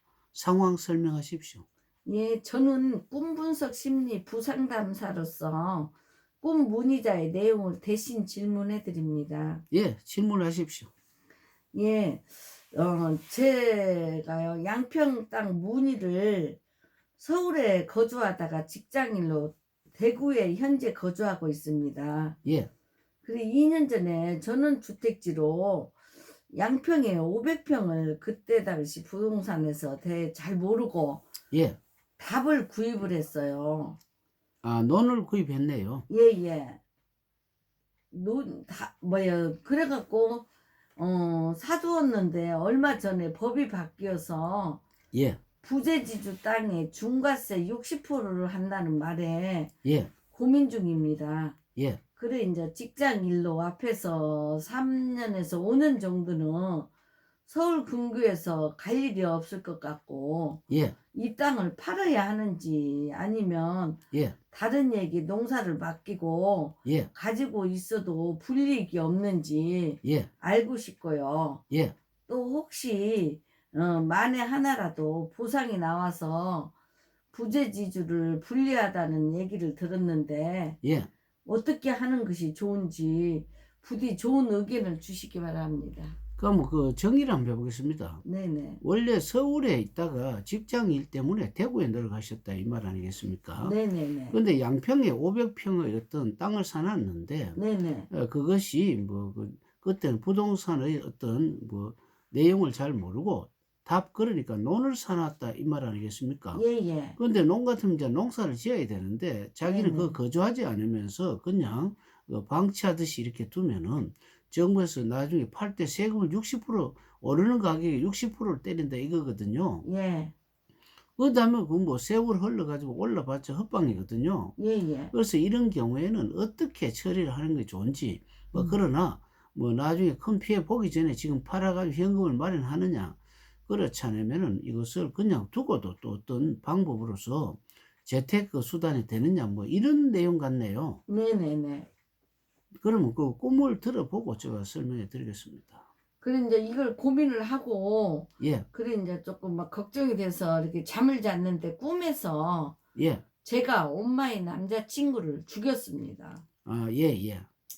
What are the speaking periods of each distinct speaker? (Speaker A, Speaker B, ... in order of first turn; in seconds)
Speaker A: 0.3-1.6, 9.7-10.9, 22.4-22.7, 31.5-31.8, 34.6-36.0, 45.1-45.4, 49.8-50.1, 60.7-61.0, 66.8-67.1, 70.0-70.3, 80.8-81.1, 86.4-88.2, 88.8-93.8, 94.3-97.6, 98.1-106.6, 107.2-119.8, 121.2-124.5, 125.1-141.0, 142.8-145.8, 148.4-148.7, 152.9-153.2, 156.6-157.5
Speaker B: 2.0-9.6, 11.7-16.6, 17.2-22.4, 23.2-25.9, 26.5-31.2, 32.2-34.0, 36.1-36.8, 38.1-40.4, 41.0-44.8, 45.6-49.7, 50.3-51.6, 52.2-56.9, 57.5-60.6, 61.1-64.0, 64.5-71.6, 72.3-76.7, 77.3-80.8, 81.5-86.2, 88.2-88.8, 93.6-94.4, 97.5-98.1, 106.5-107.2, 109.6-110.2, 119.8-120.3, 124.6-125.1, 141.1-141.9, 146.2-152.8, 153.4-156.4